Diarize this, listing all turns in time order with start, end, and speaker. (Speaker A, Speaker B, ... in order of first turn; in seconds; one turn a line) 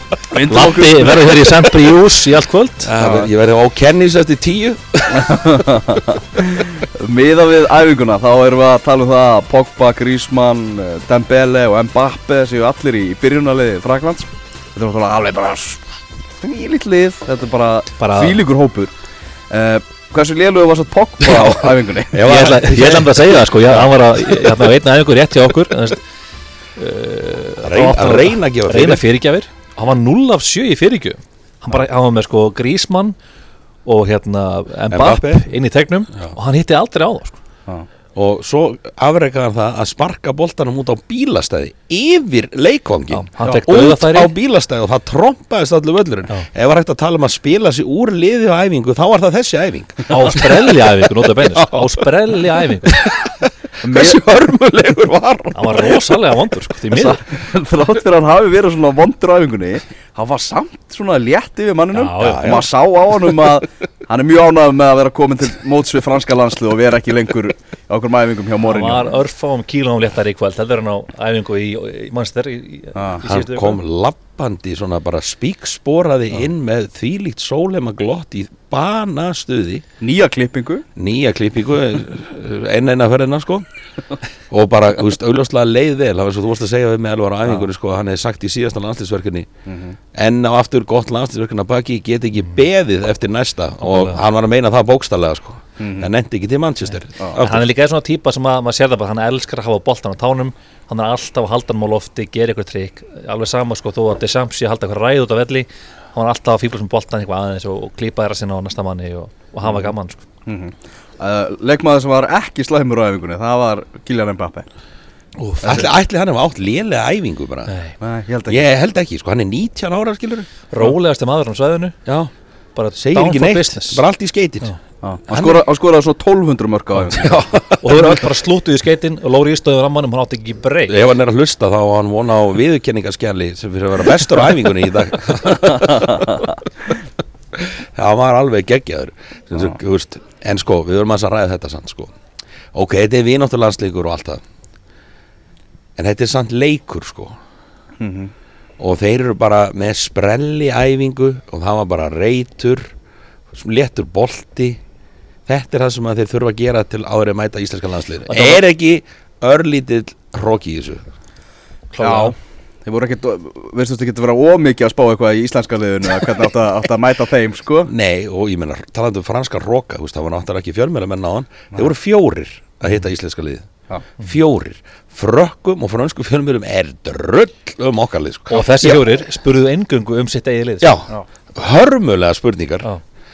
Speaker A: 0.3-1.5
Speaker B: 0.4-2.9
Speaker C: 2.8-6.0
Speaker A: 3.0-3.3
Speaker A: 5.1-15.8
Speaker A: 16.4-18.9
Speaker B: 18.0-18.4
Speaker A: 19.5-22.3
Speaker C: 22.1-24.7
Speaker B: 22.2-26.0
Speaker B: 26.8-33.1
Speaker C: 27.6-29.0
Speaker B: 33.8-37.4
Speaker C: 34.9-35.5
Speaker C: 38.1-56.0
Speaker B: 43.1-44.3
Speaker B: 50.1-52.9
Speaker A: 53.8-54.2
Speaker B: 55.5-57.2
Speaker A: 56.9-69.1
Speaker B: 61.9-62.6
Speaker C: 62.2-62.7
Speaker B: 68.7-73.8
Speaker A: 72.9-73.2
Speaker C: 73.2-79.8
Speaker A: 80.0-80.8
Speaker C: 81.0-83.7
Speaker C: 84.5-89.5
Speaker A: 89.7-90.0
Speaker C: 90.1-97.6
Speaker B: 93.8-94.2
Speaker A: 95.8-96.1
Speaker B: 97.4-110.2
Speaker A: 109.6-109.9
Speaker A: 110.5-114.7
Speaker B: 115.4-115.9
Speaker C: 115.6-117.7
Speaker B: 117.7-117.9
Speaker A: 118.0-118.6
Speaker C: 118.5-120.5
Speaker B: 120.7-122.0
Speaker C: 122.0-122.3
Speaker B: 122.8-124.0
Speaker C: 123.0-124.7
Speaker A: 125.0-127.4
Speaker C: 125.3-125.6
Speaker C: 127.1-128.1
Speaker B: 127.8-131.0
Speaker C: 130.9-136.3
Speaker C: 137.5-142.1
Speaker C: 142.7-144.4
Speaker C: 146.0-147.4
Speaker A: 148.0-148.3
Speaker C: 148.8-152.9
Speaker C: 153.5-154.8
Speaker C: 155.4-161.0
Speaker B: 158.3-158.6
Speaker B: 161.9-162.3
Speaker A: 162.0-162.3
Speaker A: 162.8-167.9
Speaker C: 167.9-173.7
Speaker C: 174.2-179.2
Speaker B: 178.5-181.0
Speaker C: 180.8-182.9